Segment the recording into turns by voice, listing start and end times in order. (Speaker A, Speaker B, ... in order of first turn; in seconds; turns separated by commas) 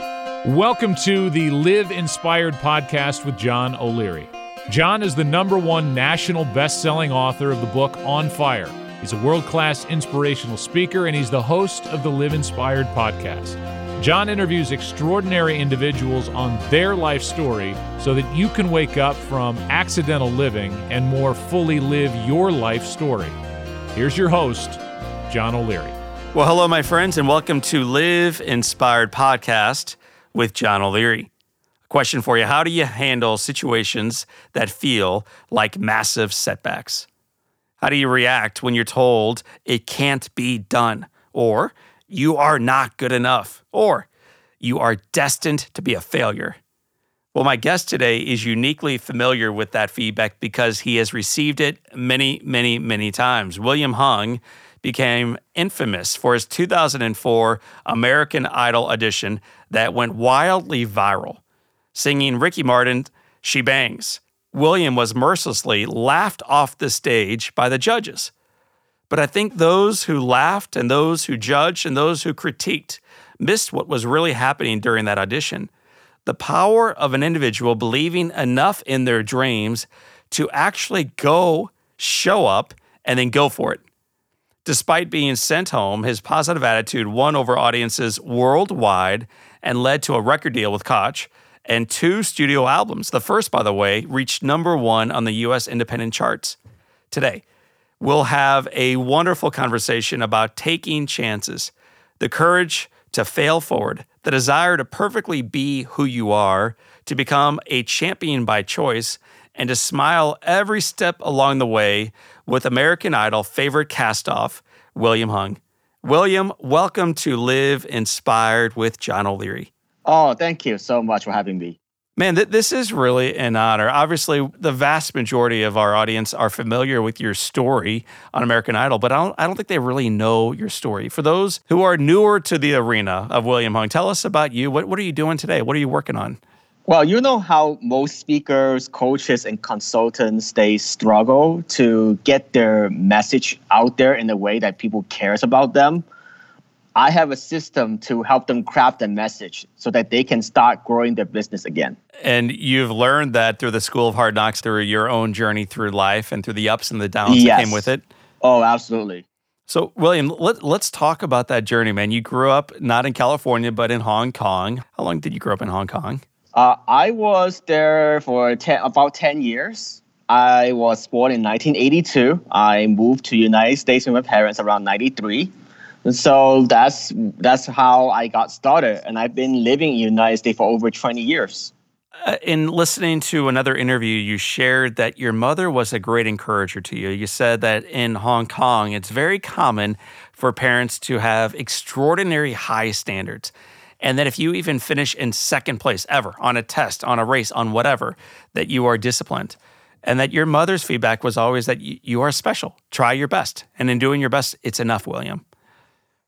Speaker A: 0.4-23.3, Speaker A: 23.9-25.9, Speaker B: 26.3-31.3, Speaker B: 31.9-37.1, Speaker B: 37.8-44.1, Speaker B: 44.6-46.6, Speaker B: 47.3-61.4, Speaker B: 61.9-68.3, Speaker B: 69.1-75.7, Speaker B: 76.2-83.8, Speaker B: 84.6-96.6, Speaker B: 97.1-97.4, Speaker B: 98.0-119.7, Speaker C: 120.0-121.8, Speaker B: 122.2-136.4, Speaker C: 136.9-146.0, Speaker C: 146.9-152.0, Speaker B: 152.2-158.0, Speaker C: 157.2-157.9, Speaker C: 158.4-159.2, Speaker B: 159.7-166.2, Speaker C: 166.5-175.5, Speaker C: 176.0-181.7, Speaker B: 182.2-205.4